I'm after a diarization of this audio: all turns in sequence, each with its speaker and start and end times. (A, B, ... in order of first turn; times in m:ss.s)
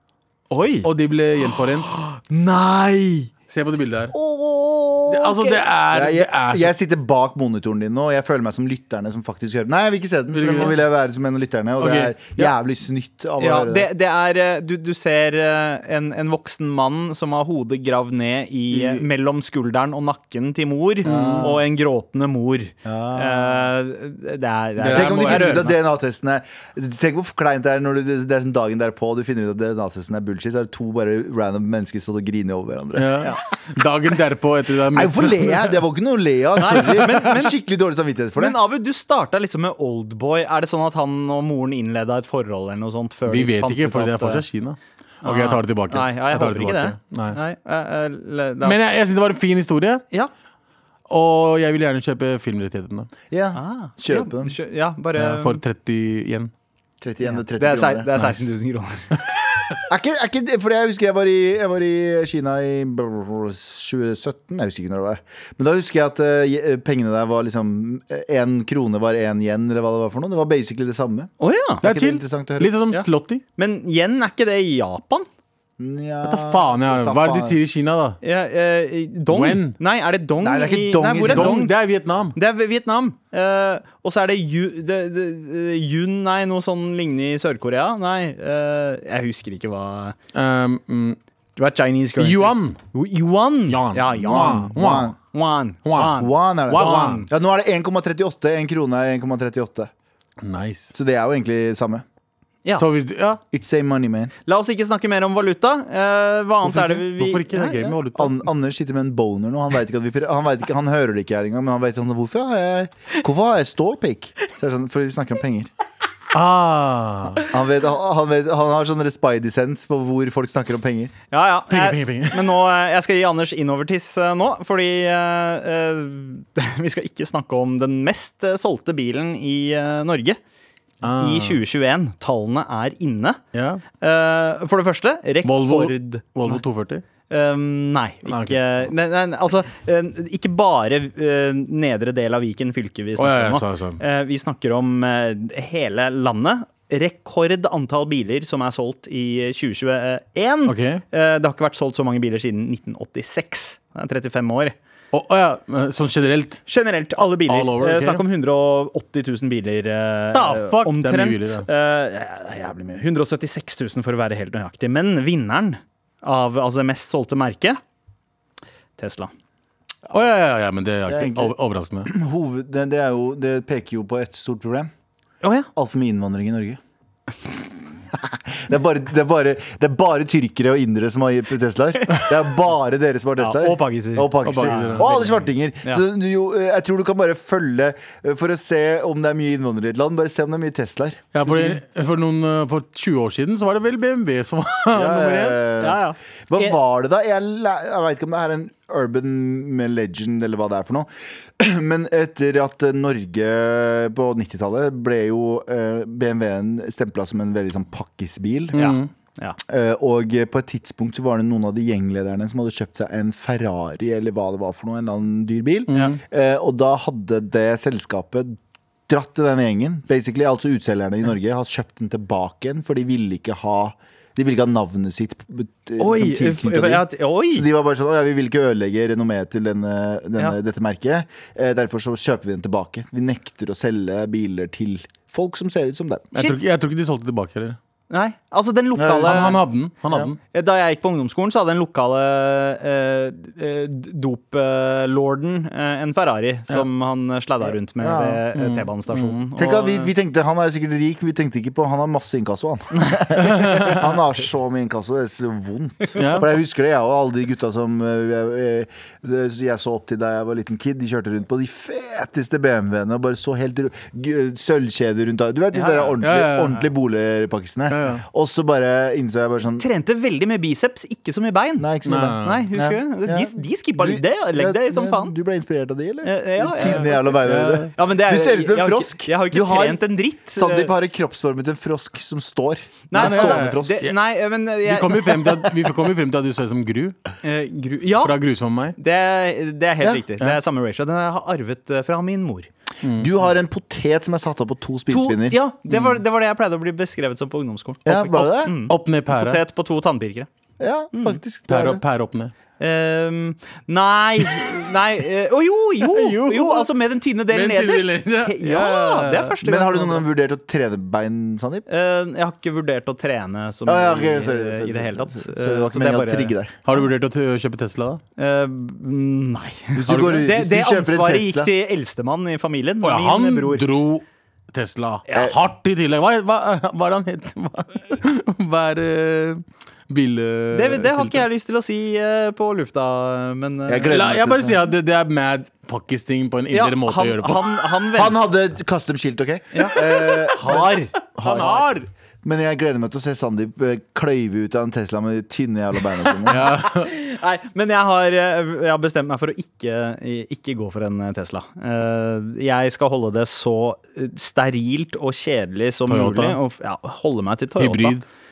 0:00.5-0:00.9 A
0:00.8-0:01.9 B
0:01.9-0:03.3 A
0:03.5-0:04.1 B
0:04.1-0:05.6 A
0:05.1-0:06.8 B
0:05.9-0:13.9 C
0:10.3-0:10.8 B
0:11.8-0:12.2 B
0:13.4-0:25.7 A
0:18.7-0:19.0 C
0:21.0-0:21.6 B
0:21.0-0:21.6 C
0:22.8-0:23.7 C
0:24.8-0:25.7 B
0:24.9-0:33.3 C
0:33.0-0:35.8 B
0:34.9-0:38.6 C
0:36.6-0:37.6 A
0:36.8-0:37.1 B
0:38.4-0:44.4 A
0:43.3-0:47.4 B
0:45.2-0:48.8 A
0:48.6-0:50.0 B
0:51.1-0:53.1 B
0:53.3-0:54.6 C
0:53.6-0:55.6 A
0:55.2-0:56.5 B
0:57.0-0:58.2 C
0:57.3-0:59.1 A
0:59.9-1:12.8 C
1:11.4-1:11.8 A
1:11.8-1:13.4 B
1:13.6-1:15.3 A
1:15.8-1:17.6 C
1:16.2-1:18.2 B
1:18.2-1:21.7 A
1:19.3-1:19.8 B
1:20.4-1:21.6 C
1:21.3-1:22.4 B
1:22.4-1:30.2 A
1:30.3-1:31.2 B
1:31.6-1:34.7 A
1:32.2-1:32.8 B
1:33.7-1:35.1 B
1:34.2-1:35.2 C
1:35.3-1:37.3 A
1:35.8-1:37.3 B
1:36.1-1:39.9 C
1:40.4-1:40.9 B
1:40.9-1:42.0 C
1:42.8-1:43.4 B
1:43.5-1:44.3 C
1:44.5-1:48.0 A
1:46.7-1:48.4 B
1:48.2-1:55.7 C
1:56.3-1:57.5 B
1:57.5-2:01.1 C
2:01.3-2:10.4 A
2:01.7-2:02.6 B
2:11.0-2:11.6 B
2:11.2-2:13.4 A
2:13.5-2:13.8 B
2:14.0-2:16.6 A
2:15.4-2:17.0 B
2:17.3-2:34.8 A
2:18.3-2:18.9 B
2:23.2-2:24.0 B
2:30.7-2:31.0 B
2:35.1-2:36.6 B
2:36.7-2:47.8 A
2:37.5-2:38.2 B
2:40.3-2:41.7 B
2:49.0-2:49.3 A
2:50.1-2:52.1 B
2:51.1-2:51.5 C
2:52.1-2:54.9 C
2:55.4-2:55.7 A
2:55.8-2:56.8 C
2:58.1-3:11.8 C
3:03.4-3:06.0 A
3:04.4-3:05.2 B
3:11.3-3:15.6 B
3:14.9-3:28.9 C
3:15.8-3:16.8 A
3:28.7-3:29.6 A
3:28.8-3:29.1 B
3:29.6-3:56.3 C
3:35.9-3:36.2 B
3:35.9-3:36.2 A
3:46.0-3:47.7 A
3:56.3-3:57.8 B
3:58.1-3:59.6 A
3:59.0-4:00.3 C
3:59.2-4:00.4 B
4:00.5-4:10.1 A
4:08.0-4:08.4 C
4:08.6-4:09.4 B
4:09.6-4:29.9 C
4:13.5-4:13.9 B
4:13.7-4:14.0 A
4:16.2-4:16.5 B
4:25.7-4:26.1 A
4:26.2-4:26.9 B
4:27.9-4:28.2 B
4:29.8-4:31.9 A
4:31.8-4:44.0 C
4:32.1-4:32.6 B
4:32.4-4:35.3 A
4:36.2-4:37.4 A
4:36.8-4:37.9 B
4:37.9-4:40.9 A
4:43.1-4:45.7 A
4:43.2-4:44.2 B
4:44.8-4:47.2 B
4:47.4-4:48.4 A
4:48.2-4:49.0 B
4:49.0-4:52.7 A
4:53.0-4:53.3 B
4:53.2-4:55.6 C
4:55.1-5:00.5 A
4:55.9-4:56.2 B
4:58.0-4:58.7 C
4:58.9-4:59.6 B
5:00.8-5:02.0 C
5:01.7-5:02.5 B
5:02.8-5:10.2 A
5:06.0-5:06.9 B
5:07.5-5:09.5 B
5:09.6-5:11.8 C
5:11.9-5:16.5 A
5:13.9-5:16.9 C
5:16.9-5:18.2 B
5:18.4-5:23.9 A
5:20.0-5:21.7 C
5:20.1-5:20.5 B
5:23.0-5:31.4 B
5:30.7-5:34.2 A
5:33.9-5:34.8 C
5:34.1-5:37.8 B
5:36.7-5:38.4 A
5:38.1-5:41.8 C
5:39.7-5:42.0 A
5:41.6-5:41.9 B
5:42.4-5:46.6 C
5:46.5-5:47.1 B
5:46.5-5:58.2 A
5:56.1-5:56.6 B
5:57.8-5:58.3 B